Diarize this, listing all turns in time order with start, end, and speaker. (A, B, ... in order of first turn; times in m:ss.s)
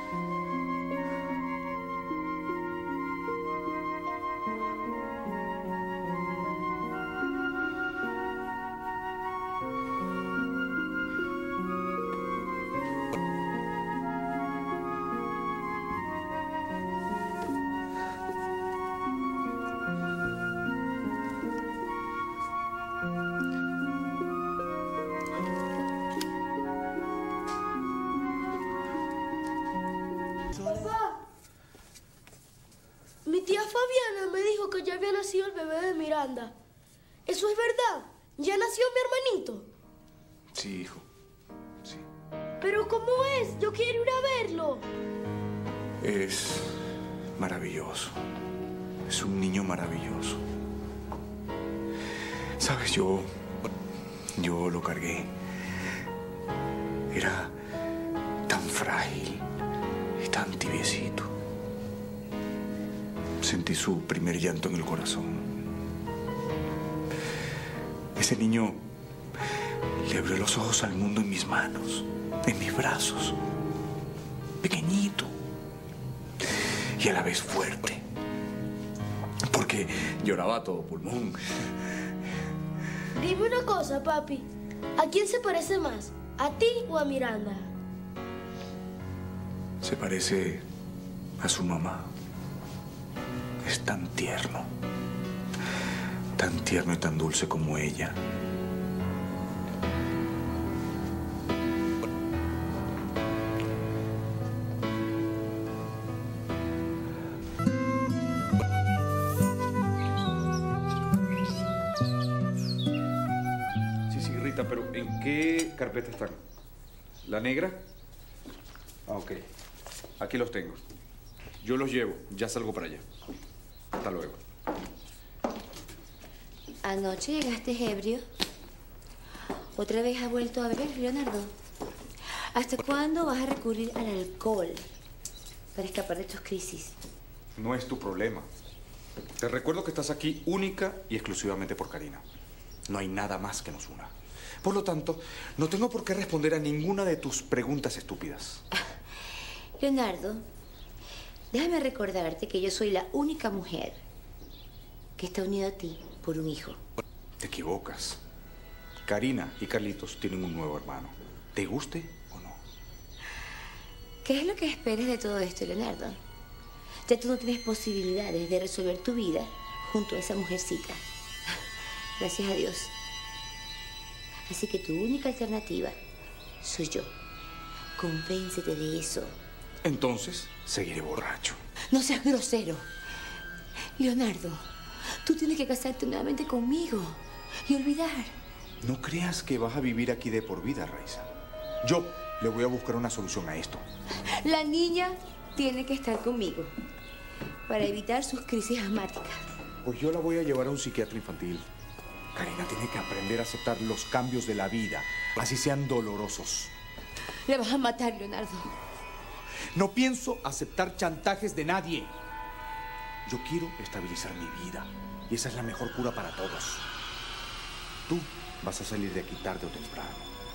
0:30.6-0:31.2 A
0:33.2-0:36.5 A
0:37.3-0:39.7 A
0:40.5-0:41.1 B
0:42.6-0:44.9 A
0:46.0-0:46.8 B
0:47.4-0:48.2 B
0:49.1-0:50.4 B
0:52.6-0:53.3 B
0:54.4-0:55.3 B
0:57.1-0:57.6 B
0:58.5-0:59.5 B
1:00.2-1:01.3 B
1:03.4-1:05.7 B
1:08.2-1:08.8 B
1:10.0-1:13.4 B
1:14.6-1:15.3 B
1:17.0-1:18.0 B
1:19.5-1:21.4 B
1:23.2-1:27.7 A
1:29.8-1:30.6 B
1:31.4-1:32.1 B
1:33.6-1:34.7 B
1:36.4-1:38.2 B
1:54.1-1:56.4 B
1:57.2-1:57.8 B
1:59.1-1:59.4 B
2:00.2-2:00.8 B
2:01.6-2:03.0 B
2:04.0-2:04.4 B
2:06.8-2:08.3 C
2:09.8-2:11.5 C
2:12.4-2:14.9 C
2:15.8-2:17.0 C
2:17.6-2:18.5 B
2:19.4-2:22.2 B
2:22.9-2:28.6 B
2:29.8-2:30.5 C
2:31.5-2:34.0 C
2:35.2-2:36.8 C
2:37.4-2:38.2 B
2:39.0-2:42.6 B
2:44.2-2:46.2 C
2:47.1-2:51.6 C
2:52.2-2:52.9 C
2:54.5-2:56.0 C
2:56.6-2:57.1 C
2:58.0-2:59.4 C
2:59.8-3:01.6 B
3:01.9-3:02.9 C
3:04.0-3:08.4 C
3:08.8-3:11.3 B
3:11.8-3:13.8 B
3:14.2-3:16.7 C
3:17.7-3:19.5 C
3:19.8-3:21.7 B
3:22.3-3:26.7 B
3:27.4-3:28.7 C
3:29.8-3:32.1 B
3:33.3-3:36.9 B
3:38.1-3:40.3 B